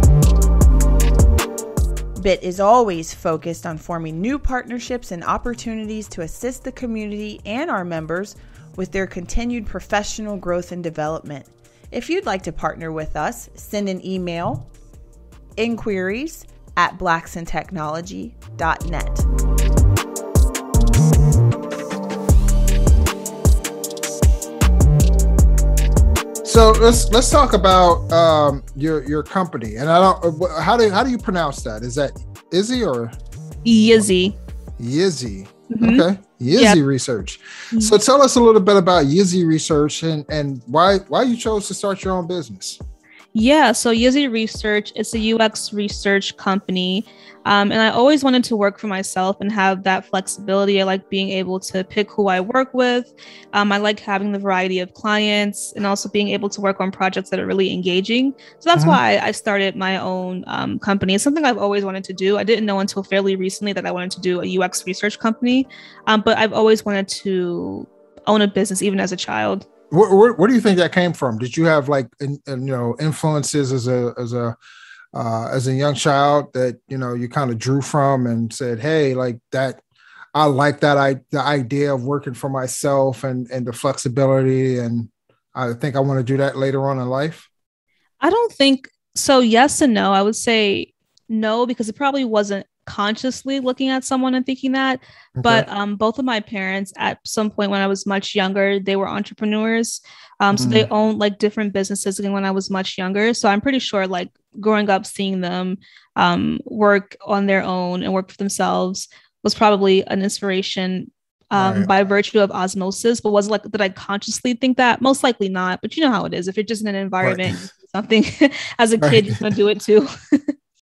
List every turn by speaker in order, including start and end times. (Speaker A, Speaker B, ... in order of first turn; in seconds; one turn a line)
Speaker A: 2.2-14.7
Speaker A: 15.6-19.3
Speaker B: 26.4-33.1
Speaker C: 33.6-34.3
Speaker B: 34.8-42.8
Speaker C: 35.7-36.8
Speaker C: 43.3-69.7
Speaker B: 58.7-59.0
Speaker B: 69.9-74.5
Speaker B: 75.1-79.8
Speaker B: 80.3-87.5
Speaker C: 88.2-120.5
Speaker B: 95.4-95.7
Speaker B: 100.5-100.9
Speaker B: 111.5-111.9
Speaker B: 117.2-117.5
Speaker B: 119.0-119.3